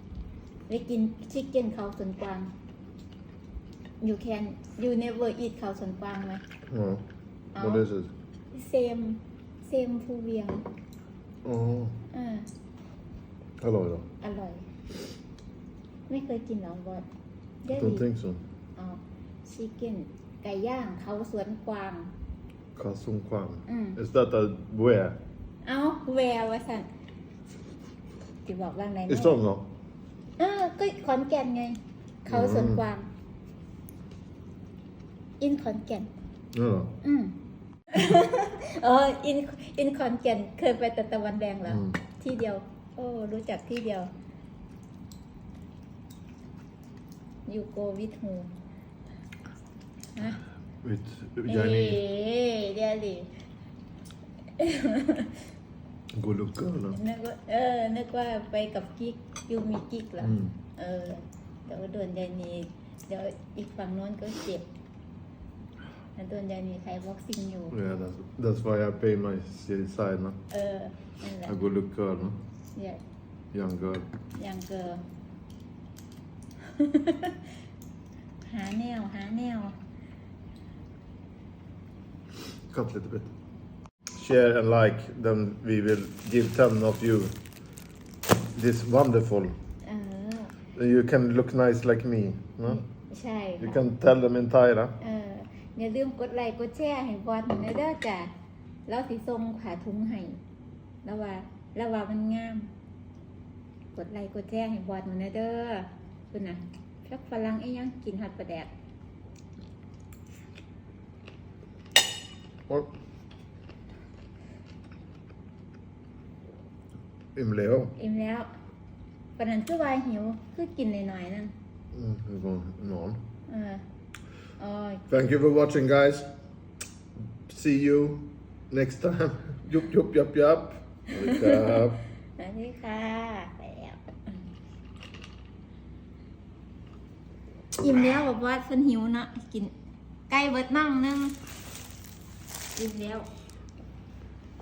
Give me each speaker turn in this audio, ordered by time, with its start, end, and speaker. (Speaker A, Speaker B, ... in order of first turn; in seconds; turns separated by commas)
Speaker A: 0.7-2.5, Speaker A: 4.0-6.4, Speaker B: 6.7-8.1, Speaker A: 7.5-7.9, Speaker A: 8.5-10.7, Speaker B: 11.4-12.0, Speaker A: 12.1-12.5, Speaker B: 13.6-14.1, Speaker A: 14.2-14.7, Speaker A: 16.1-17.1, Speaker A: 17.6-18.1, Speaker B: 17.7-18.4, Speaker A: 18.8-22.1, Speaker B: 22.7-25.2, Speaker A: 23.7-24.0, Speaker A: 25.6-26.9, Speaker A: 28.4-29.4, Speaker B: 29.1-29.7, Speaker A: 30.4-33.1, Speaker B: 32.3-32.8, Speaker A: 35.4-36.1, Speaker B: 36.5-37.0, Speaker A: 37.0-37.4, Speaker A: 37.9-44.1, Speaker B: 41.6-42.0, Speaker A: 47.5-48.5, Speaker A: 50.1-50.4, Speaker B: 50.8-52.0, Speaker A: 51.5-53.3, Speaker A: 54.6-55.4, Speaker B: 56.1-57.0, Speaker A: 56.9-64.7, Speaker B: 60.2-60.5, Speaker A: 66.2-67.8, Speaker B: 67.7-70.4, Speaker A: 70.5-71.6, Speaker B: 71.4-72.4, Speaker A: 72.7-73.0, Speaker B: 73.5-74.1, Speaker A: 74.3-75.0, Speaker A: 76.7-77.3, Speaker A: 78.5-79.8, Speaker B: 82.7-83.3, Speaker B: 84.1-87.4, Speaker B: 88.5-89.5, Speaker A: 89.8-90.5, Speaker B: 90.7-92.8, Speaker A: 92.7-93.8, Speaker B: 93.6-95.0, Speaker A: 95.0-98.3, Speaker A: 98.9-100.4, Speaker A: 101.0-102.7, Speaker A: 103.9-108.7, Speaker B: 117.3-118.0, Speaker A: 118.0-118.5, Speaker A: 119.4-121.5, Speaker B: 121.9-123.2, Speaker A: 123.5-123.8, Speaker A: 124.6-125.0, Speaker B: 125.1-126.3, Speaker B: 127.5-132.0, Speaker A: 132.4-134.0, Speaker A: 137.8-139.7, Speaker A: 140.3-141.4, Speaker A: 142.7-143.3